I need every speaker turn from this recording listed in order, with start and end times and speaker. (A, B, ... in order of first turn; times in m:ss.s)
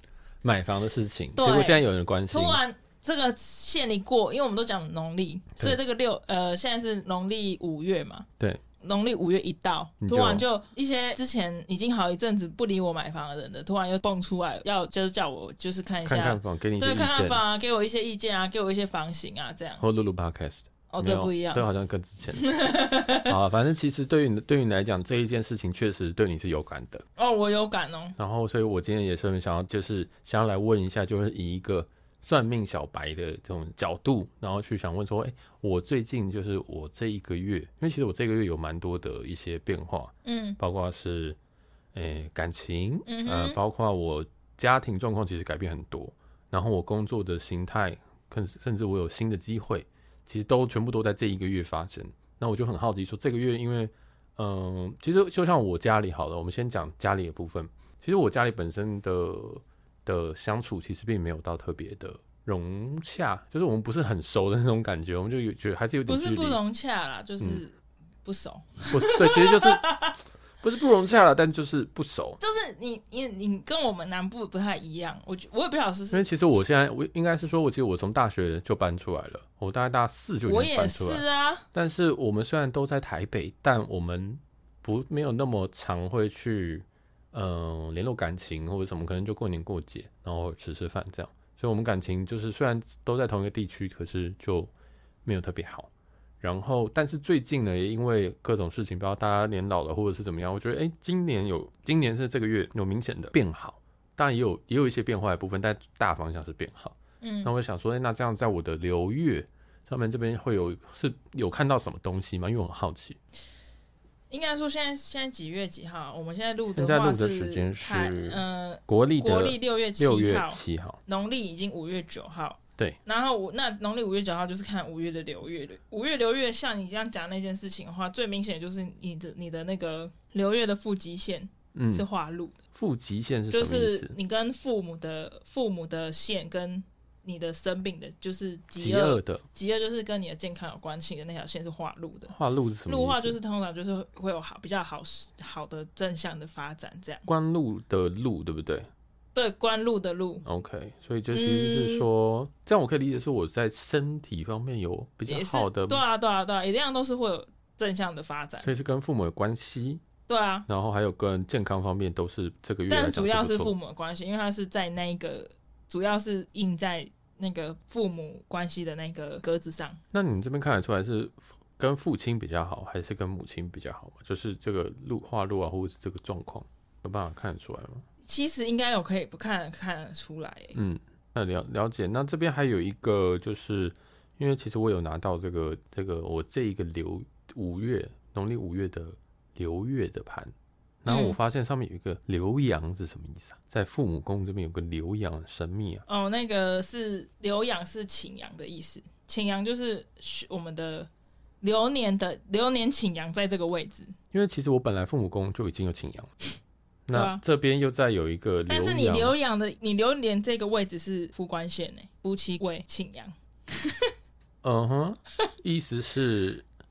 0:00.4-0:02.6 A
0:01.4-0:08.3 B
0:08.8-0:19.8 B
0:10.0-0:10.4 A
0:16.0-0:17.4 A
0:19.8-0:22.6 A
0:20.9-0:21.6 B
0:22.4-0:23.3 B
0:23.2-0:27.0 A
0:27.2-0:28.2 B
0:28.2-0:41.4 A
0:40.2-0:40.6 B
0:41.9-1:06.6 A
0:43.0-0:43.6 B
1:06.1-1:10.2 B
1:08.9-1:09.8 A
1:10.6-1:12.4 A
1:12.4-1:16.2 B
1:16.1-1:34.7 A
1:20.5-1:21.6 B
1:35.2-1:35.9 A
1:36.4-1:53.2 A
1:47.2-1:47.5 B
1:54.3-2:12.6 B
1:56.7-2:01.0 A
2:11.7-2:12.0 A
2:12.7-2:14.1 A
2:13.5-2:22.3 B
2:18.8-2:19.4 A
2:22.3-2:23.4 A
2:22.8-2:27.3 B
2:27.3-2:28.9 A
2:29.3-2:30.4 B
2:30.4-2:36.0 A
2:31.3-2:32.0 B
2:35.3-2:38.7 B
2:38.6-2:40.0 A
2:40.3-2:40.7 B
2:40.7-2:43.7 A
2:42.9-2:50.0 B
2:50.1-2:58.0 A
2:58.2-3:00.8 B
3:00.7-3:16.0 A
3:11.1-3:11.4 B
3:16.1-3:21.1 B
3:21.6-3:24.1 B
3:24.3-3:26.3 A
3:27.1-3:29.3 A
3:27.1-3:27.4 B
3:28.7-3:34.1 B
3:34.6-3:36.6 A